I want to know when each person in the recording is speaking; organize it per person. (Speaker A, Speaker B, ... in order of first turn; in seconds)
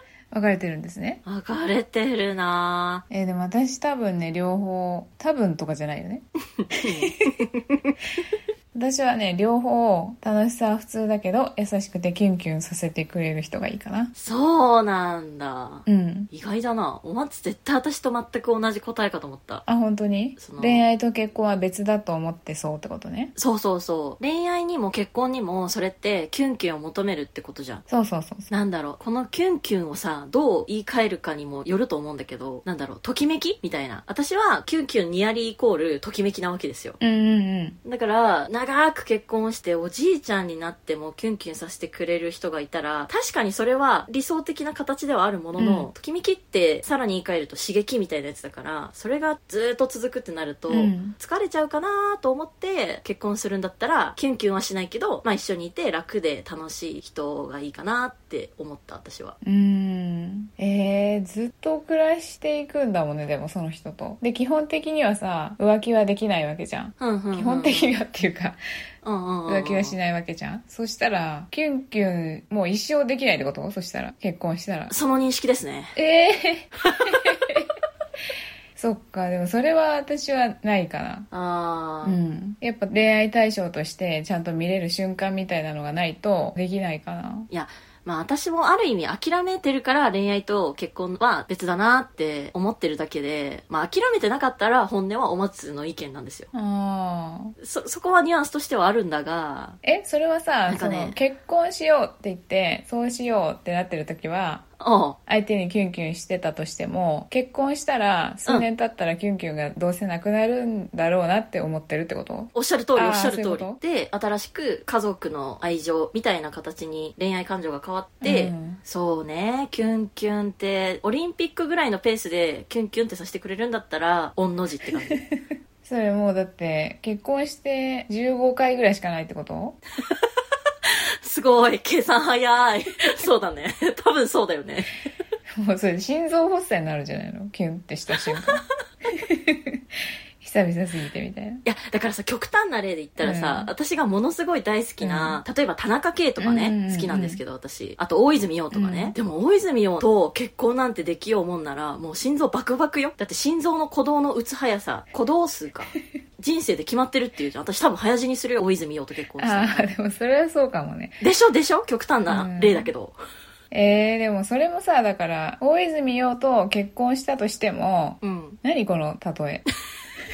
Speaker A: 0.3-1.2, 3.1-6.2, 8.7-14.1, 15.9-16.3, 19.6-23.3, 27.9-28.5, 37.0-37.8, 45.6-45.9, 50.7-51.1, 59.4-68.6, 69.5-74.9, 75.9-77.7, 78.8-81.3, 82.0-87.5, 96.5-97.5, 99.8-104.7, 105.3-113.8, 118.2-118.8, 125.1-129.8, 135.5-141.6, 143.2-143.7, 145.0-145.4, 146.4-147.4, 148.7-149.1, 159.4-161.2, 162.3-162.9, 163.7-169.6
Speaker B: 1.2-3.0, 6.6-7.8, 14.1-19.6, 20.4-20.9, 23.4-27.8, 28.5-37.0, 37.8-59.4, 67.0-68.0, 69.0-70.0, 74.9-75.9, 81.3-82.2, 87.5-96.5, 97.6-99.8, 100.7-101.2, 104.8-105.2, 112.5-125.2, 130.9-135.0, 138.2-138.4, 141.6-159.9, 161.2-163.2, 168.2-168.6